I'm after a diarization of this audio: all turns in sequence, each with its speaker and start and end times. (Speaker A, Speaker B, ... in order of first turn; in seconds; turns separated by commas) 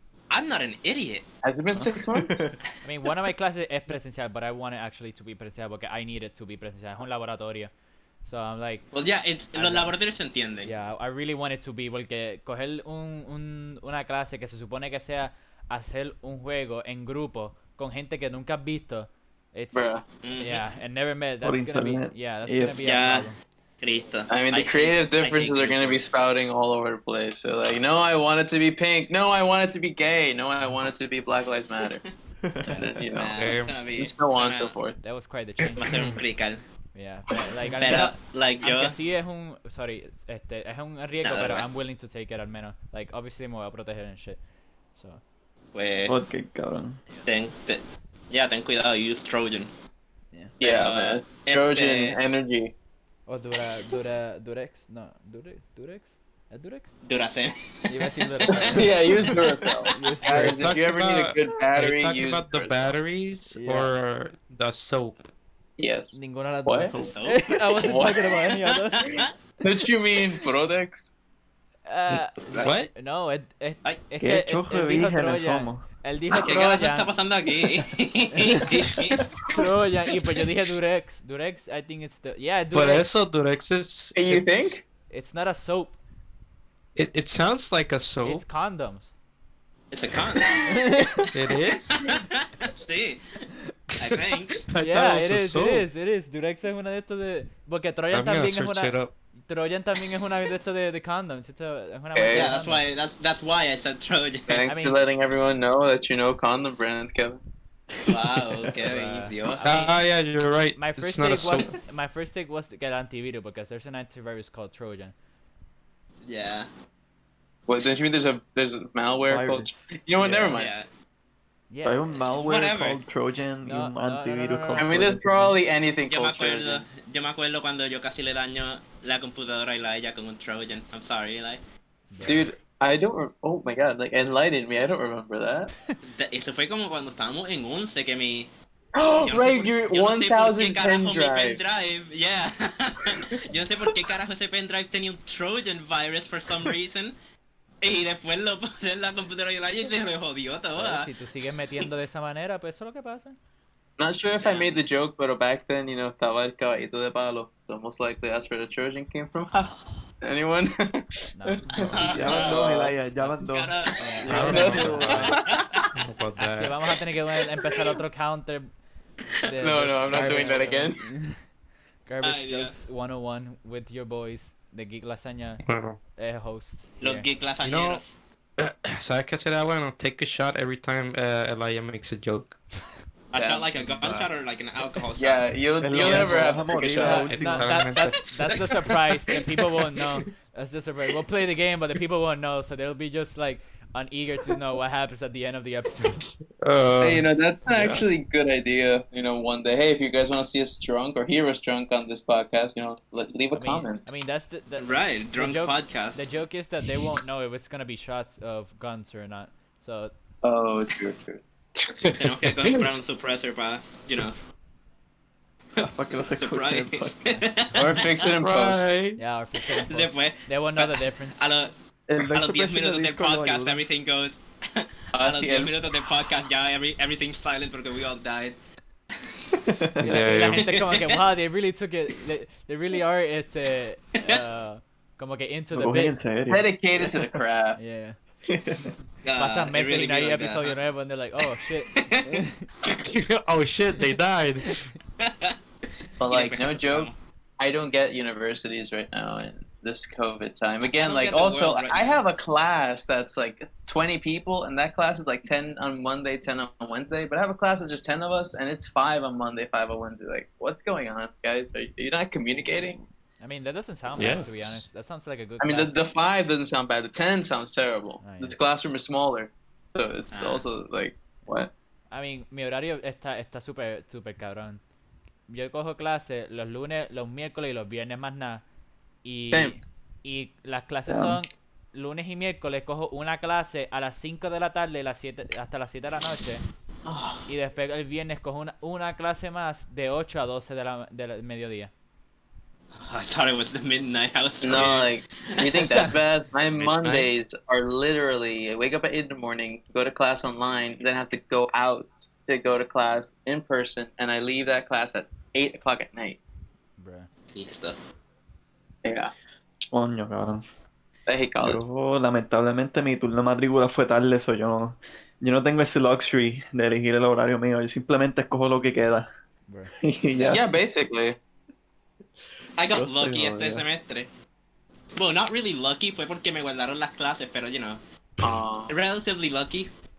Speaker A: 0.3-1.2, Speaker B: 1.4-2.4, Speaker C: 1.8-2.6, Speaker D: 2.8-7.7, Speaker D: 8.2-8.9, Speaker A: 8.9-10.7, Speaker D: 9.5-9.9, Speaker D: 10.6-19.9, Speaker B: 19.7-20.0, Speaker A: 20.2-20.6, Speaker D: 20.4-23.4, Speaker C: 21.4-22.8, Speaker A: 22.8-23.3, Speaker A: 23.8-26.1, Speaker B: 24.3-32.0, Speaker C: 32.4-32.9, Speaker B: 32.6-33.3, Speaker A: 33.1-34.8, Speaker E: 33.3-33.7, Speaker B: 33.9-35.0, Speaker D: 35.0-35.9, Speaker A: 35.8-36.6, Speaker D: 36.9-44.4, Speaker C: 37.7-37.9, Speaker A: 37.8-39.0, Speaker A: 41.2-41.6, Speaker D: 44.9-45.2, Speaker A: 45.7-46.1, Speaker C: 46.0-47.0, Speaker A: 47.2-49.7, Speaker B: 50.6-52.7, Speaker A: 50.6-52.2, Speaker D: 53.3-57.0, Speaker A: 57.0-59.4, Speaker D: 57.9-60.6, Speaker B: 58.5-62.9, Speaker E: 60.3-65.2, Speaker D: 63.5-63.9, Speaker B: 65.8-67.0, Speaker D: 66.1-69.3, Speaker C: 66.9-67.1, Speaker A: 66.9-67.6, Speaker B: 67.8-68.3, Speaker A: 68.6-69.3, Speaker B: 69.6-71.1, Speaker D: 71.9-77.1, Speaker E: 72.6-72.9, Speaker C: 74.2-75.8, Speaker A: 76.3-79.2, Speaker D: 78.3-78.7, Speaker D: 79.5-83.2, Speaker E: 82.7-84.7, Speaker B: 84.1-84.8, Speaker D: 85.1-86.0, Speaker E: 87.0-88.4, Speaker D: 88.2-89.1, Speaker A: 89.9-90.8, Speaker D: 90.7-91.3, Speaker E: 91.3-92.0, Speaker A: 92.0-94.6, Speaker E: 94.0-95.9, Speaker D: 94.8-102.8, Speaker E: 98.1-99.1, Speaker B: 102.1-102.5, Speaker A: 102.3-104.7, Speaker B: 104.5-107.4, Speaker D: 104.7-105.0, Speaker A: 108.0-109.6, Speaker D: 108.8-110.0, Speaker E: 109.6-111.7, Speaker D: 110.8-115.1, Speaker A: 116.2-116.7, Speaker B: 117.7-120.7, Speaker C: 119.3-120.4, Speaker A: 120.5-120.9, Speaker D: 121.7-122.3, Speaker C: 121.8-125.5, Speaker A: 122.2-123.0, Speaker D: 123.6-125.5, Speaker B: 124.8-126.8, Speaker A: 126.1-131.6, Speaker D: 132.1-132.5, Speaker B: 132.2-135.7, Speaker A: 136.0-138.5, Speaker B: 138.9-141.6, Speaker A: 139.1-147.1, Speaker A: 147.8-151.1, Speaker D: 150.7-153.3, Speaker B: 154.0-162.9, Speaker A: 154.4-154.8, Speaker A: 159.6-159.8, Speaker D: 161.3-162.2, Speaker A: 161.8-162.8, Speaker C: 161.9-165.2, Speaker A: 163.4-164.1, Speaker D: 164.0-165.4, Speaker B: 164.1-165.9, Speaker E: 164.3-165.3, Speaker A: 165.3-165.8, Speaker E: 165.9-166.8, Speaker D: 166.4-168.7, Speaker D: 169.4-171.5, Speaker B: 169.6-171.0, Speaker D: 172.1-175.6, Speaker A: 172.2-172.7, Speaker E: 175.6-176.0, Speaker D: 176.1-177.3, Speaker A: 177.0-178.2, Speaker E: 177.6-178.0, Speaker E: 178.6-182.6, Speaker A: 183.3-185.4, Speaker B: 183.3-183.7, Speaker D: 183.8-184.2, Speaker B: 185.2-187.4, Speaker C: 185.8-187.9, Speaker E: 185.9-188.9, Speaker D: 187.0-196.3, Speaker E: 196.5-198.0, Speaker B: 197.0-204.1, Speaker D: 203.5-210.1, Speaker A: 204.8-206.2, Speaker B: 210.4-211.4, Speaker E: 211.8-212.8, Speaker A: 212.2-214.4, Speaker C: 215.8-217.4, Speaker A: 215.8-218.1, Speaker B: 217.7-218.9, Speaker E: 218.4-219.2, Speaker D: 219.2-221.5, Speaker A: 219.7-221.7, Speaker C: 222.1-223.8, Speaker A: 222.3-228.6, Speaker B: 225.1-225.7, Speaker A: 229.2-229.7, Speaker C: 229.6-230.1, Speaker E: 230.0-230.7, Speaker D: 230.0-236.2, Speaker A: 230.5-231.2, Speaker C: 235.7-237.2, Speaker B: 236.5-237.8, Speaker D: 237.8-238.2, Speaker C: 238.4-238.9, Speaker D: 238.8-242.7, Speaker A: 239.2-240.7, Speaker A: 241.9-242.4, Speaker E: 242.8-244.9, Speaker A: 245.2-245.6, Speaker B: 246.2-263.0, Speaker A: 246.3-247.2, Speaker A: 250.8-252.2, Speaker D: 263.4-266.0, Speaker E: 264.1-264.8, Speaker B: 265.6-271.7, Speaker D: 268.2-268.6, Speaker A: 270.3-270.6, Speaker D: 272.1-274.8, Speaker D: 275.5-278.6, Speaker D: 279.2-286.6, Speaker B: 279.5-279.8, Speaker C: 281.1-281.4, Speaker B: 287.1-287.4, Speaker D: 287.5-291.9, Speaker A: 292.9-296.1, Speaker B: 294.6-306.4, Speaker E: 296.8-297.3, Speaker D: 307.0-307.3, Speaker A: 307.5-307.9, Speaker B: 309.0-309.3, Speaker C: 309.9-310.6, Speaker B: 311.3-311.8, Speaker C: 311.6-319.3, Speaker D: 319.7-319.9, Speaker C: 319.9-320.6, Speaker B: 320.4-321.4, Speaker A: 322.8-324.3, Speaker C: 322.9-323.8, Speaker A: 325.1-328.0, Speaker B: 328.4-328.9, Speaker A: 328.9-329.9